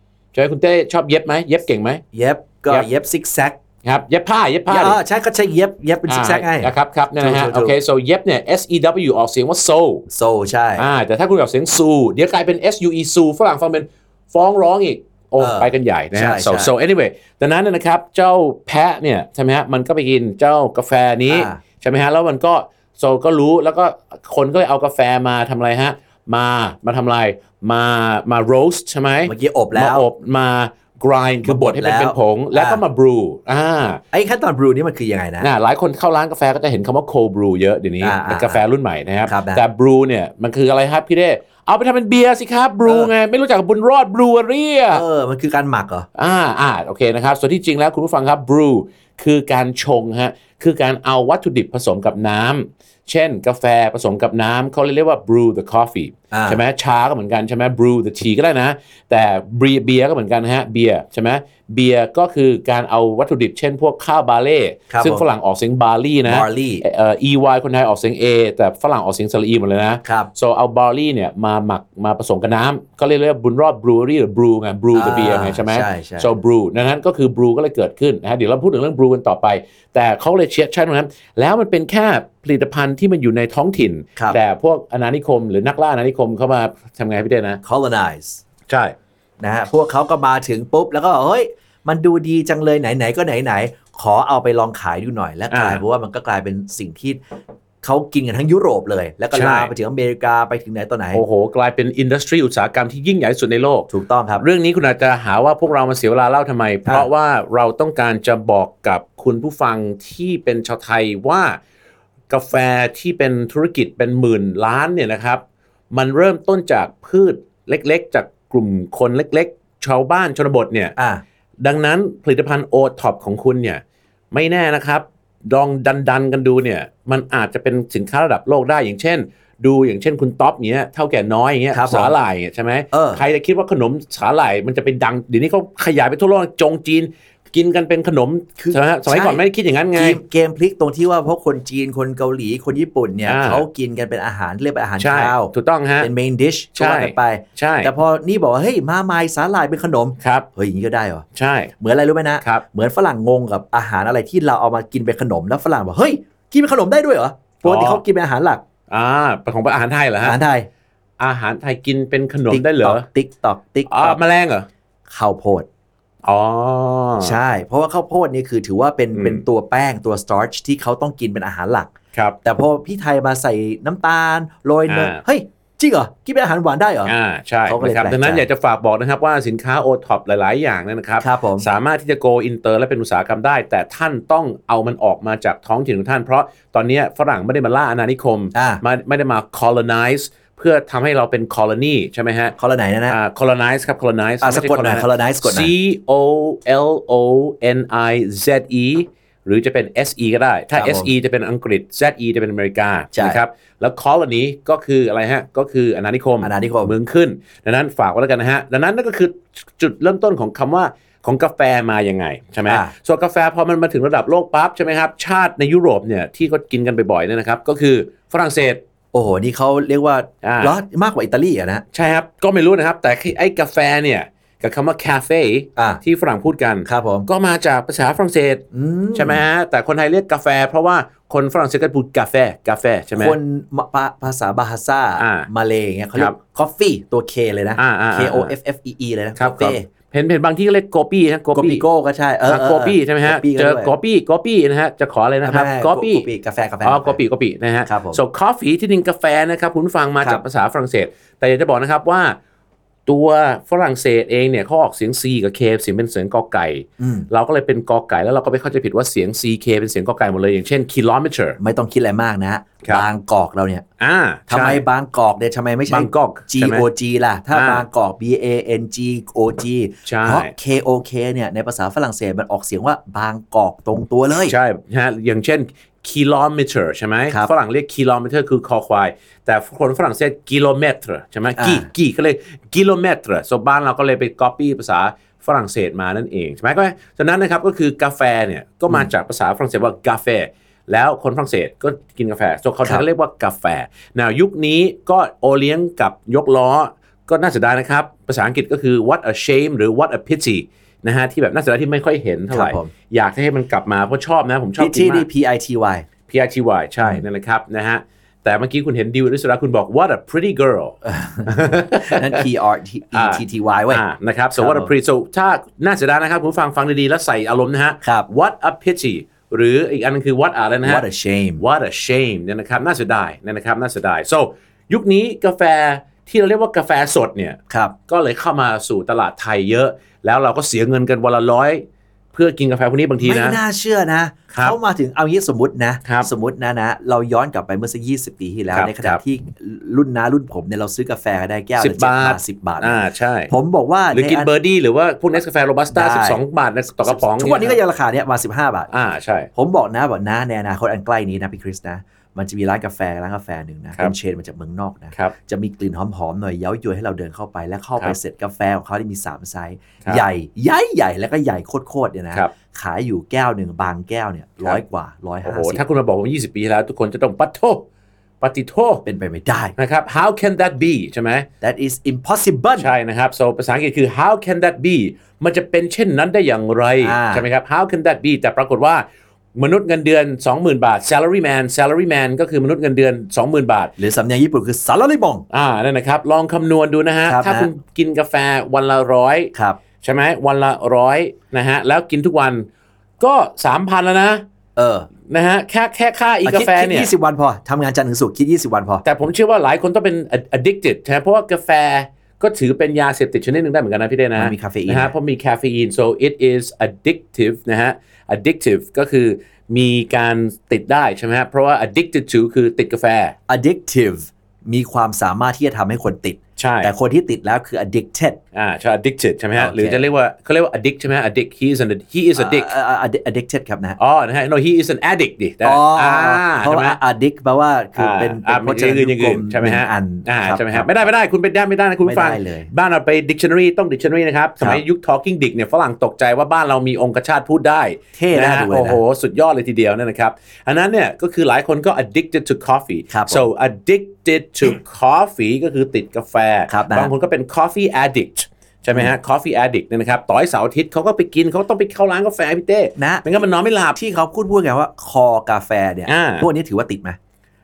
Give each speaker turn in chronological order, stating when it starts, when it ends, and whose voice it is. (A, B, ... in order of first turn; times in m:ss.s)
0:00.3-0:02.0 A
0:02.1-0:03.6 B
0:03.8-0:05.0 A
0:04.7-0:07.8 B
0:06.1-0:10.1 A
0:10.1-0:10.8 B
0:10.8-0:34.0 A
0:15.4-0:16.7 B
0:21.3-0:21.6 B
0:29.2-0:30.1 B
0:31.4-0:32.8 B
0:34.1-0:35.5 B
0:35.4-0:45.0 A
0:38.0-0:38.6 B
0:39.3-0:39.6 B
0:42.8-0:43.1 B
0:44.9-0:46.1 B
0:46.2-1:27.6 A
0:56.3-0:56.6 B
1:04.9-1:05.2 B
1:06.3-1:06.8 B
1:14.9-1:16.3 B
1:27.6-1:28.4 B
1:28.7-1:28.9 A
1:29.4-1:37.2 B
1:35.5-1:35.8 A
1:37.8-1:41.2 B
1:39.3-1:39.7 A
1:41.1-1:51.6 A
1:43.9-1:44.4 B
1:52.3-2:01.0 A
2:01.0-2:01.2 B
2:01.6-2:20.2 A
2:11.7-2:12.2 B
2:12.9-2:13.2 B
2:18.6-2:19.4 B
2:19.9-2:31.2 B
2:23.3-2:23.6 A
2:25.0-2:26.1 A
2:26.8-2:27.9 A
2:30.2-2:30.5 A
2:31.4-2:31.7 A
2:31.8-2:38.6 B
2:37.6-2:38.0 A
2:38.9-2:40.4 A
2:40.2-2:40.7 B
2:41.2-2:43.0 A
2:42.5-2:44.2 B
2:43.9-2:44.7 A
2:45.1-2:45.7 B
2:46.2-2:47.4 A
2:47.2-2:51.9 B
2:49.1-2:49.4 A
2:52.4-2:57.1 B
2:54.9-2:55.2 A
2:57.1-3:12.6 A
2:57.7-2:58.4 B
3:01.2-3:01.7 B
3:08.6-3:08.8 B
3:12.6-3:13.2 B
3:13.1-3:38.8 A
3:14.4-3:15.7 B
3:20.7-3:21.1 B
3:23.1-3:23.4 B
3:26.4-3:26.9 B
3:32.7-3:32.9 B
3:39.1-3:41.8 B
3:40.4-3:40.8 A
3:41.9-3:53.4 A
3:45.8-3:46.0 B
3:46.9-3:47.3 B
3:48.7-3:49.4 B
3:53.2-3:59.8 B
3:55.2-3:55.5 A
3:57.8-3:58.5 A
3:59.4-4:01.8 A
4:01.5-4:03.9 B
4:02.5-4:06.3 A
4:05.4-4:07.2 B
4:06.8-4:12.4 A
4:07.9-4:08.2 B
4:13.1-4:21.6 A
4:17.0-4:17.3 B
4:21.6-4:23.8 B
4:24.0-4:24.8 A
4:24.5-4:34.6 B
4:25.9-4:26.9 A
4:27.5-4:27.8 A
4:30.1-4:30.5 A
4:34.5-5:05.3 A
4:41.6-4:41.9 B
5:02.5-5:02.9 B
5:04.8-5:06.1 B
5:06.3-5:12.5 A
5:11.1-5:14.0 B
5:13.1-5:21.0 A
5:14.6-5:14.9 B
5:18.0-5:18.3 B
5:20.8-5:21.6 B
5:21.6-5:33.6 A
5:33.2-5:44.5 B
5:38.7-5:39.2 A
5:41.8-5:43.5 A
5:44.1-5:47.8 A
5:45.9-5:46.4 B
5:47.0-5:48.9 B
5:48.9-5:49.5 A
5:49.6-6:05.8 B
6:05.4-6:07.8 A
6:08.4-6:09.0 A
6:09.0-6:09.8 B
6:09.8-6:11.5 A
6:11.6-6:12.9 B
6:12.8-6:23.9 A
6:17.0-6:17.4 B
6:24.0-6:25.4 B
6:25.5-6:32.7 A
6:27.3-6:27.7 B
6:29.5-6:29.8 B
6:33.2-6:34.4 A
6:34.8-6:35.1 B
6:35.3-6:37.1 A
6:36.4-6:39.0 B
6:39.0-6:53.4 A
6:44.4-6:45.1 B
6:53.5-6:58.4 B
6:56.6-6:56.9 A
6:58.6-7:02.7 A
6:59.6-7:00.0 B
7:02.4-7:04.0 B
7:04.0-7:07.0 A
7:05.6-7:11.1 B
7:08.0-7:34.0 A
7:12.0-7:12.7 B
7:18.2-7:19.0 B
7:23.1-7:23.5 B
7:26.7-7:27.1 B
7:33.0-7:33.3 B
7:34.0-7:37.2 B
7:36.1-7:36.5 A